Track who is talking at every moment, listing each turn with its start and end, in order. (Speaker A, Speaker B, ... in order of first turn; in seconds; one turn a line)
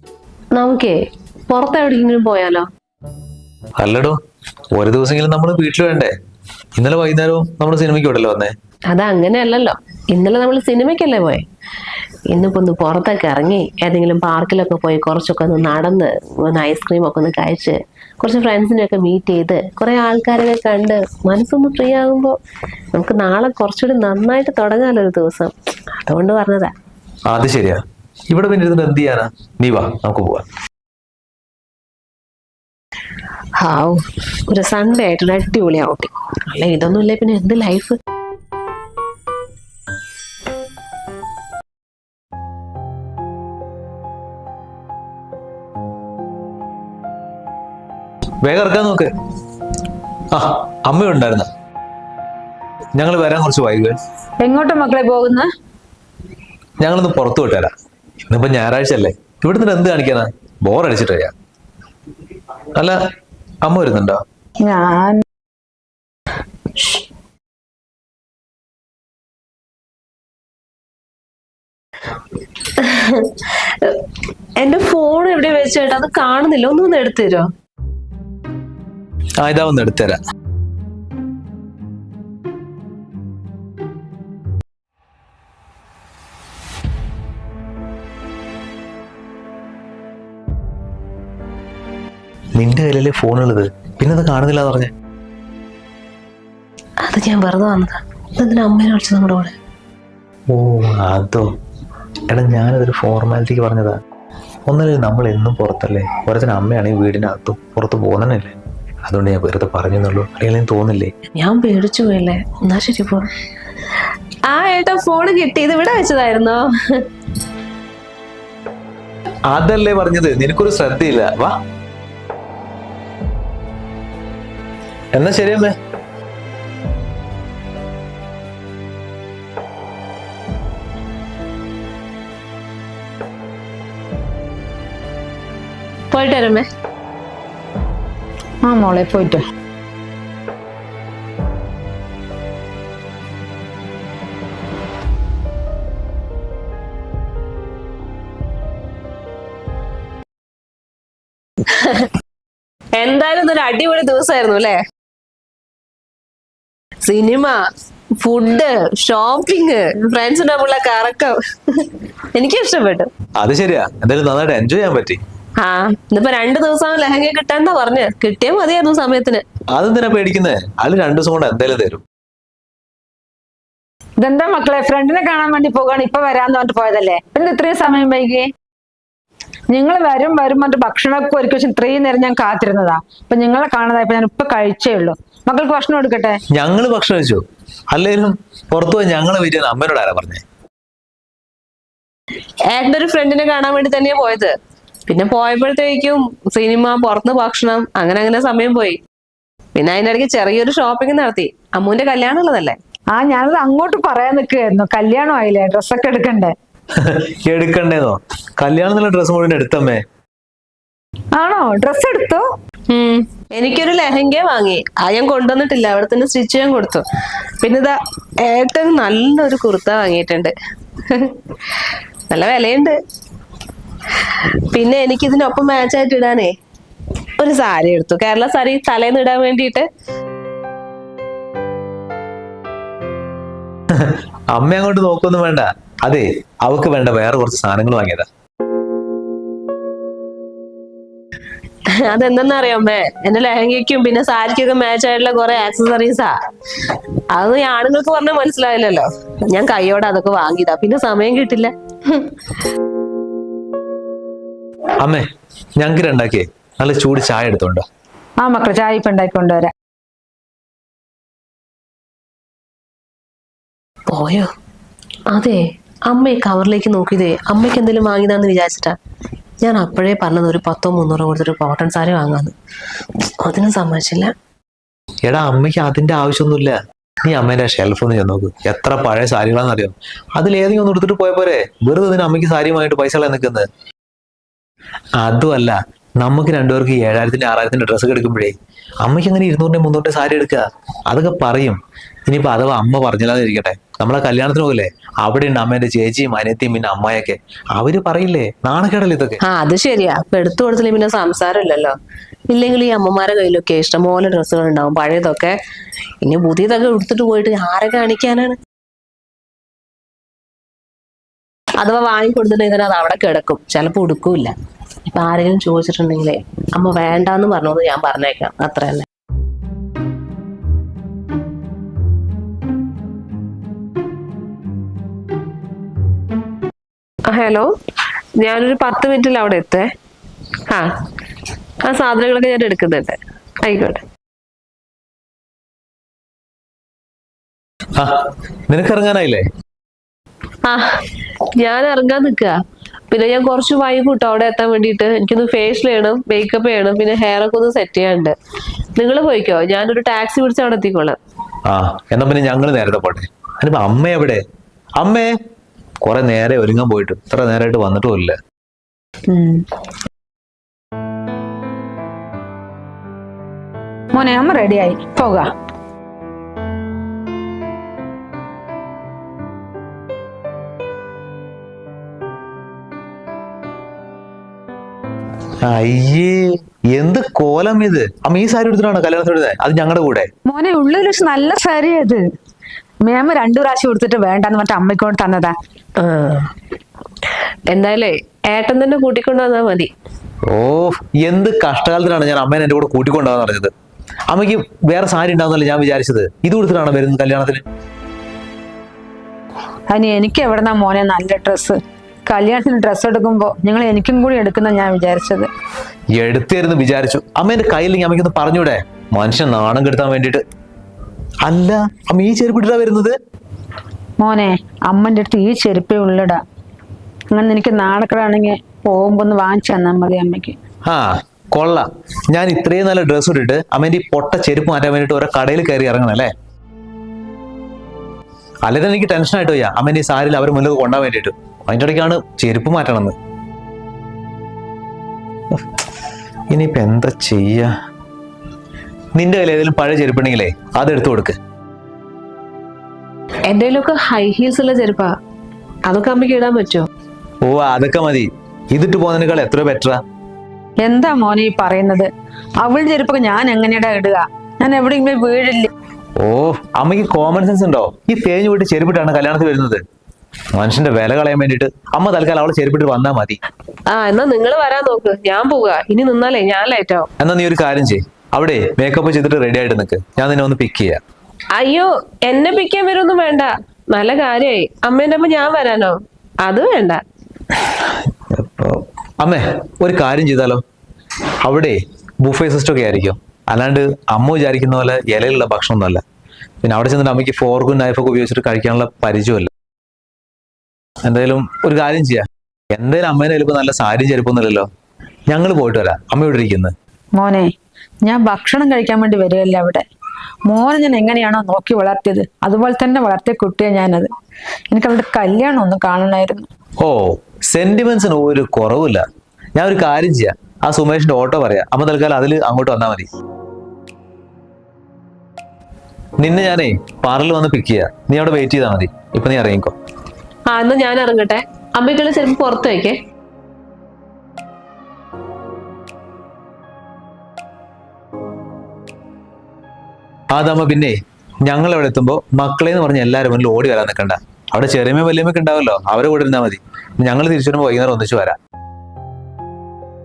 Speaker A: 0.5-2.7
Speaker B: 3.8-4.2
Speaker B: 4.7-6.1
Speaker B: 6.8-8.5
Speaker A: 8.9-11.4
Speaker A: 12.3-22.4
Speaker A: 22.9-26.7
Speaker B: 27.3-30.4
Speaker A: 33.6-38.0
Speaker B: 48.4-49.1
Speaker B: 50.3-51.5
Speaker B: 53.0-54.0
Speaker C: 54.4-55.5
Speaker B: 56.8-57.7
Speaker B: 58.3-61.3
Speaker B: 63.6-64.2
Speaker C: 64.6-65.2
Speaker A: 72.8-74.0
Speaker A: 74.6-77.5
Speaker B: 79.4-80.2
Speaker B: 92.6-94.9
Speaker A: 97.0-99.5
Speaker B: 100.5-101.5
Speaker B: 102.3-104.0
Speaker B: 104.7-111.1
Speaker A: 111.3-113.3
Speaker A: 114.5-117.0
Speaker B: 119.5-121.6
Speaker B: 125.1-125.8
Speaker A: 136.1-136.7
Speaker C: 138.6-139.4
Speaker A: 151.7-152.1
Speaker A: 152.9-154.8
Speaker A: 157.0-157.6
Speaker A: 158.2-163.1
Speaker B: 163.4-165.2
Speaker A: 165.6-169.4
Speaker B: 169.7-172.0
Speaker C: 174.2-178.5
Speaker C: 179.7-186.4
Speaker B: 186.5-190.4
Speaker A: 192.7-194.5
Speaker A: 195.1-199.0
Speaker A: 199.8-202.8
Speaker C: 203.1-206.5
Speaker B: 207.0-210.0
Speaker C: 211.4-212.4
Speaker A: 212.9-217.1
Speaker A: 217.6-220.5
Speaker A: 221.1-223.0
Speaker A: 224.2-226.5
Speaker A: 227.4-229.9
Speaker B: 233.9-238.3
Speaker A: 242.0-246.3
Speaker A: 247.3-252.3
Speaker B: 255.0-255.2
Speaker B: 255.8-257.9
Speaker C: 258.4-259.7
Speaker A: 264.1-264.5
Speaker A: 265.3-269.0
Speaker A: 269.6-272.5
Speaker A: 273.4-274.3
Speaker B: 275.2-283.7
Speaker B: 285.2-299.4
Speaker A: 299.4-301.9
Speaker A: 302.5-305.6
Speaker A: 306.2-308.6
Speaker A: 311.8-314.5
Speaker A: 315.1-319.1
Speaker A: 327.3-327.7
Speaker A: 328.4-329.9
Speaker A: 331.8-334.0
Speaker B: 337.9-339.5
Speaker A: 340.7-341.0
Speaker A: 341.6-342.6
Speaker A: 343.1-348.4
Speaker A: 349.0-351.2
Speaker B: 351.7-354.4
Speaker B: 355.0-355.3
Speaker B: 356.0-358.4
Speaker C: 359.3-359.6
Speaker C: 364.1-365.5
Speaker B: 375.6-380.3
Speaker C: 380.5-382.2
Speaker C: 383.0-385.6
Speaker A: 386.0-386.5
Speaker A: 387.7-389.9
Speaker B: 390.5-393.7
Speaker B: 394.3-397.6
Speaker C: 399.9-405.5
Speaker B: 406.1-410.4
Speaker B: 411.4-413.2
Speaker C: 414.2-416.4
Speaker C: 417.3-420.6
Speaker B: 420.9-426.3
Speaker B: 428.6-433.2
Speaker B: 435.5-435.8
Speaker B: 436.5-437.7
Speaker B: 439.2-441.4
Speaker A: 443.5-445.1
Speaker A: 445.9-446.9
Speaker B: 447.4-450.0
Speaker C: 450.8-452.1
Speaker C: 452.6-455.7
Speaker B: 456.2-459.8
Speaker B: 460.6-463.4
Speaker A: 463.9-467.1
Speaker B: 467.2-471.0
Speaker A: 471.5-477.0
Speaker B: 477.6-480.6
Speaker B: 481.4-486.0
Speaker B: 486.6-489.5
Speaker B: 491.0-494.7
Speaker B: 495.3-496.7
Speaker C: 497.2-497.5
Speaker C: 498.1-499.9
Speaker C: 500.5-504.1
Speaker C: 504.7-506.5
Speaker B: 506.8-509.0
Speaker B: 509.6-513.1
Speaker B: 516.2-519.7
Speaker A: 520.5-523.0
Speaker B: 530.3-538.4